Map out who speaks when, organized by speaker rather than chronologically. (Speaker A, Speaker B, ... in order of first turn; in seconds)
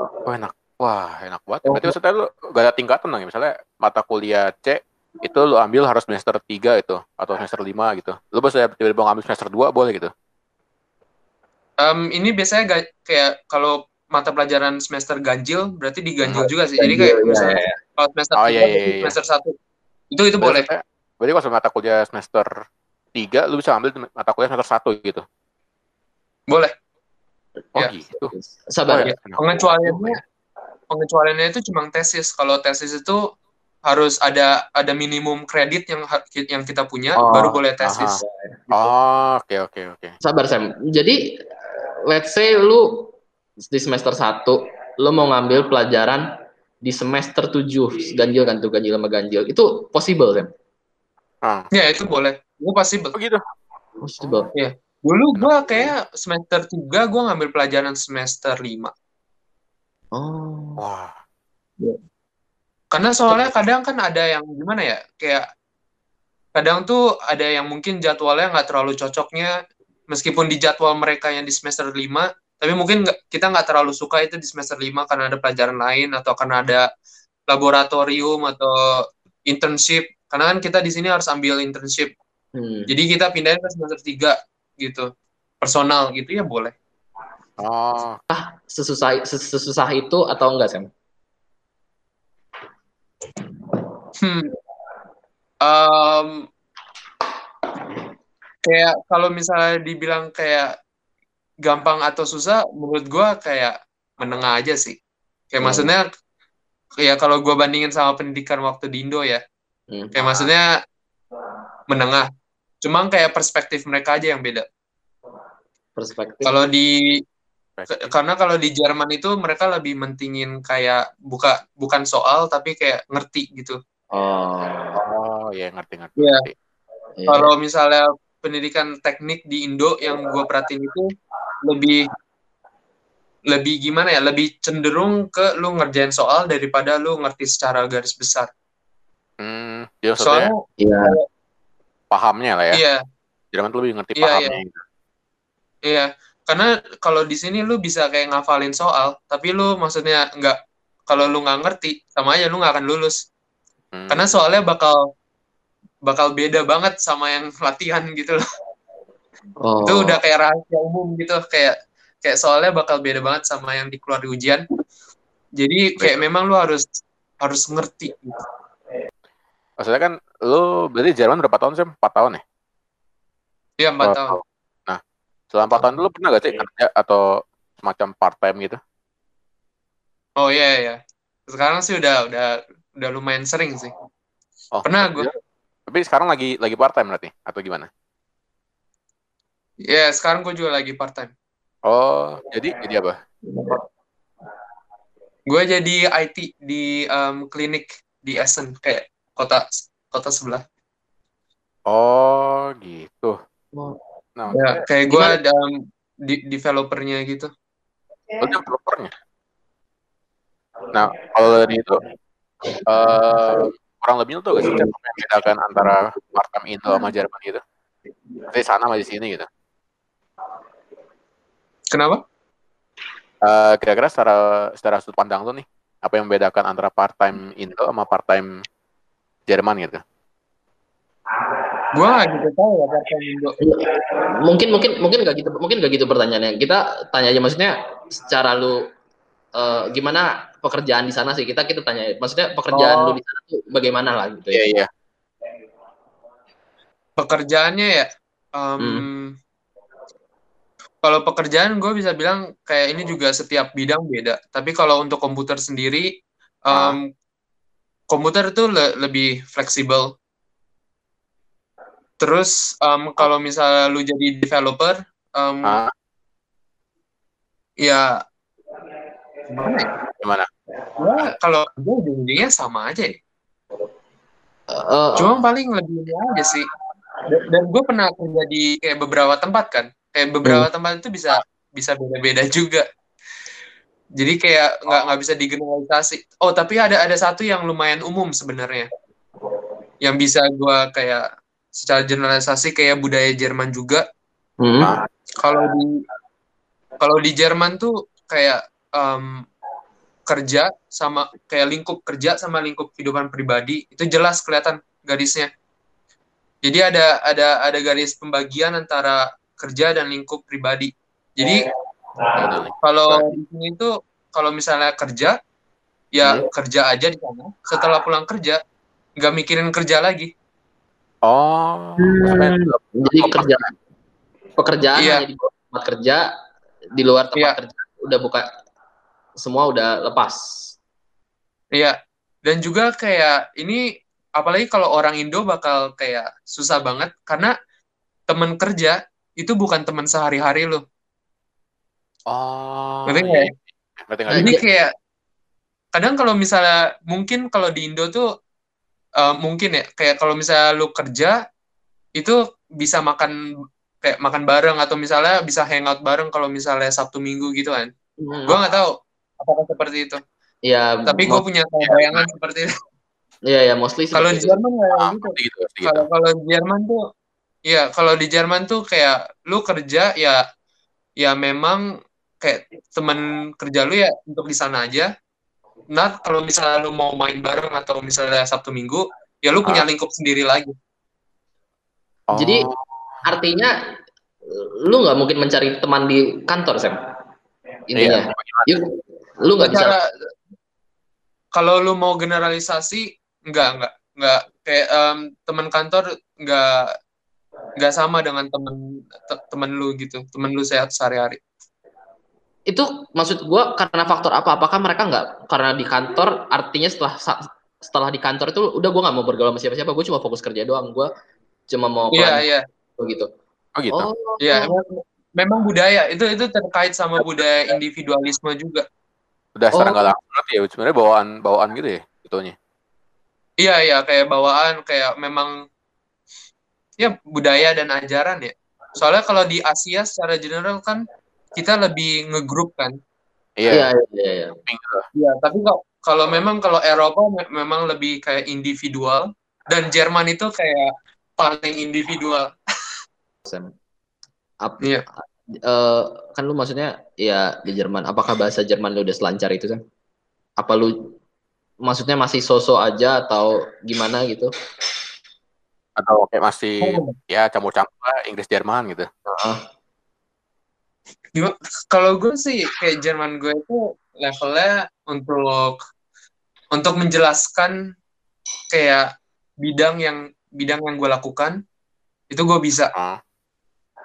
Speaker A: 0.3-10.1, 18.4-19.1, 20.4-22.5, 23.1-25.2, 27.8-28.3, 28.9-30.0, 37.8-40.1, 51.4-51.7, 53.1-53.4, 55.4-55.9, 60.8-61.1, 87.6-88.2, 117.8-118.1, 125.0-126.5, 139.4-140.5, 142.1-142.8, 143.5-144.8, 153.9-154.4, 169.8-172.4, 174.0-175.0, 175.5-178.8, 184.7-185.3, 185.9-187.9, 191.9-193.2, 201.9-203.4, 204.4-205.3, 208.4-209.1, 210.9-212.0, 212.9-217.6, 218.5-219.5, 223.4-228.5, 229.5-230.0, 244.5-244.9, 256.7-257.0, 265.6-265.9, 270.2-270.5, 275.1-275.4, 312.4-313.3, 321.3-323.7, 342.3-344.6, 364.9-366.1, 382.3-383.2, 387.9-388.8, 413.8-414.1, 419.6-422.6, 433.6-433.9, 434.7-435.1, 456.0-459.1, 472.9-473.2
Speaker B: 1.7-1.9, 11.8-19.5, 20.1-20.7, 29.1-30.2, 30.9-33.2, 33.9-38.2, 51.7-53.1, 54.5-58.9, 62.9-65.5, 66.6-69.5, 70.1-76.9, 77.5-78.9, 79.5-82.1, 82.9-85.1, 85.6-86.7, 94.2-94.5, 95.6-96.5, 98.7-100.7, 101.6-105.0, 105.5-106.0, 107.0-109.4, 110.2-110.7, 111.9-112.3, 112.8-114.7, 116.4-117.2, 117.9-123.8, 126.2-126.5, 127.3-131.1, 131.7-132.1, 133.5-138.5, 140.2-141.2, 142.7-143.0, 144.2-144.6, 145.9-150.6, 151.1-153.2, 154.1-155.0, 156.1-158.4, 159.8-164.6, 165.6-166.8, 167.4-168.4, 173.8-174.4, 180.4-183.9, 184.8-185.3, 189.9-191.3, 193.5-193.8, 195.5-200.6, 204.5-207.5, 221.9-222.2, 231.9-233.6, 242.7-243.2, 247.2-249.3, 251.0-256.1, 256.7-257.0, 258.1-260.1, 262.2-265.8, 267.8-268.1, 269.5-269.9, 271.0-273.2, 275.2-276.7, 277.3-282.9, 284.2-288.9, 290.0-291.2, 291.8-294.0, 295.4-295.9, 297.0-299.4, 300.3-305.5, 306.6-311.6, 312.8-315.4, 316.1-318.6, 319.2-320.3, 325.0-325.2, 331.8-333.8, 334.4-337.5, 338.3-340.8, 343.1-343.5, 344.4-344.9, 345.9-348.3, 349.2-351.4, 352.2-353.4, 354.0-357.9, 358.5-360.2, 361.1-362.7, 364.1-367.0, 367.7-370.4, 371.2-371.8, 372.4-375.1, 375.9-380.7, 389.6-390.0, 391.6-396.9, 397.8-401.4, 412.1-412.6, 414.4-418.8, 423.6-425.5, 427.0-431.0, 431.6-433.0, 435.2-442.5, 456.8-457.2, 461.4-465.8, 466.7-467.8, 468.7-469.1, 469.6-471.6, 472.3-472.9
Speaker C: 16.4-17.8, 28.2-29.1, 37.2-37.6, 38.2-38.6, 40.2-46.2, 46.8-50.5, 54.0-54.5, 60.1-60.8, 82.5-82.9, 88.3-90.9, 105.6-105.9, 109.9-110.5, 116.0-116.5, 124.1-125.0, 127.2-127.5, 140.8-141.2, 159.6-160.2, 203.7-204.0, 233.6-238.8, 239.5-244.7, 248.8-249.1, 274.7-275.2, 294.6-294.9, 322.0-323.7, 324.6-326.2, 327.0-328.5, 329.4-330.7, 344.3-344.6, 358.2-358.6, 360.6-361.4, 363.5-364.6, 382.3-382.7, 383.2-383.8, 384.5-387.0, 387.9-390.0, 402.7-411.1, 411.7-412.4, 413.0-413.3, 413.9-414.8, 419.7-420.1, 433.7-434.6, 443.4-443.7, 444.6-449.8, 450.6-451.0, 451.9-454.5, 459.3-459.6